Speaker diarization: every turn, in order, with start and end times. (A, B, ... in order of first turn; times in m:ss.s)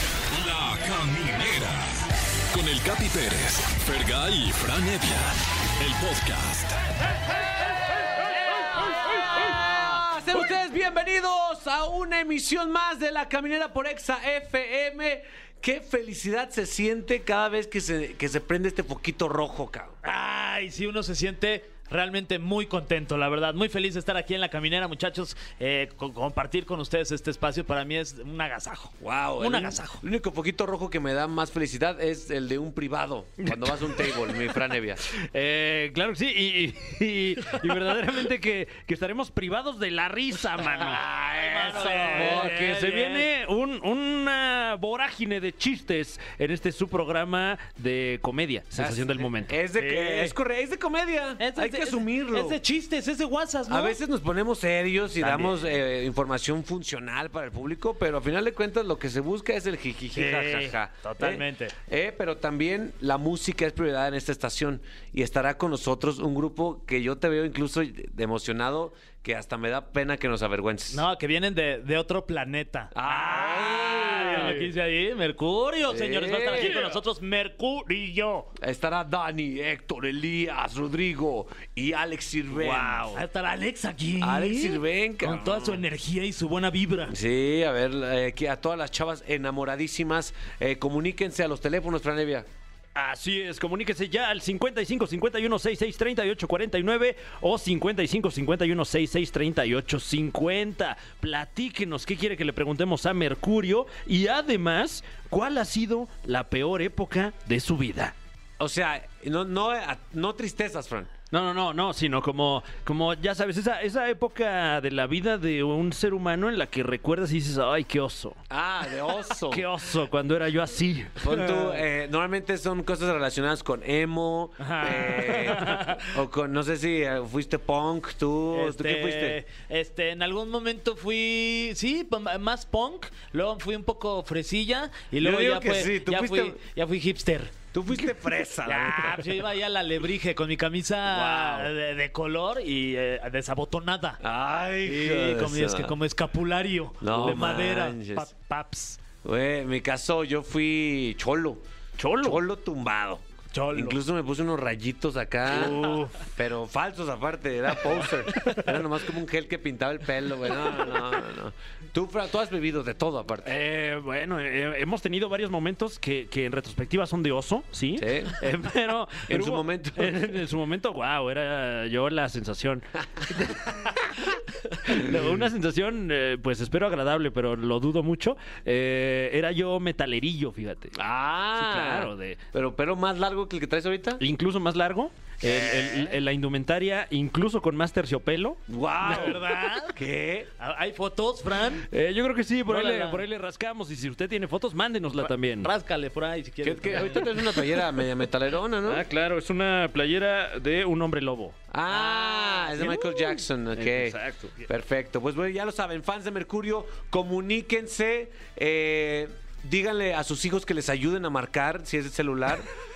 0:00.3-0:01.9 A
0:02.5-0:06.8 A
0:07.6-0:20.0 B
0:20.0-0:30.0 C
0:29.0-0:35.0 B
0:33.4-0:34.6 D
0:35.1-0:49.6 D
0:41.3-0:43.3 C
0:41.6-0:42.9 B
0:48.8-0:52.6 B
0:49.8-0:50.3 C
0:51.4-0:54.0 C
0:53.7-1:11.0 B
0:55.2-0:55.6 C
1:00.1-1:01.7 C
1:10.9-1:18.5 C
1:12.9-1:14.7 B
1:15.9-1:16.8 B
1:18.6-1:23.2 B
1:22.6-1:27.1 C
1:22.8-1:23.2 D
1:24.2-1:25.8 B
1:27.1-1:32.5 B
1:33.0-1:48.1 D
1:48.6-1:51.1 B
1:51.3-1:58.4 D
1:58.5-1:59.7 B
1:59.5-2:01.8 D
2:01.2-2:09.4 B
2:04.6-2:05.9 C
2:08.5-2:17.5 C
2:15.2-2:16.6 B
2:17.7-2:19.2 B
2:18.7-2:24.2 C
2:21.1-2:21.7 B
2:24.2-2:26.0 B
2:24.8-2:29.0 C
2:27.0-2:28.3 B
2:29.2-2:31.6 B
2:32.0-2:32.4 D
2:32.2-2:43.5 B
2:33.5-2:34.0 C
2:35.5-2:36.2 D
2:38.4-2:38.6 D
2:43.4-2:53.8 D
2:48.0-2:48.4 B
2:49.3-2:50.3 B
2:54.9-3:00.9 D
3:01.0-3:04.2 B
3:01.5-3:02.4 D
3:04.2-3:09.4 D
3:05.4-3:06.1 B
3:08.7-3:10.5 B
3:09.0-3:10.0 C
3:10.6-3:11.9 C
3:11.9-3:15.7 D
3:12.7-3:13.2 C
3:15.6-3:17.3 C
3:16.6-3:19.0 B
3:18.9-3:21.6 D
3:21.7-3:32.7 B
3:21.9-3:23.0 C
3:22.8-3:24.6 D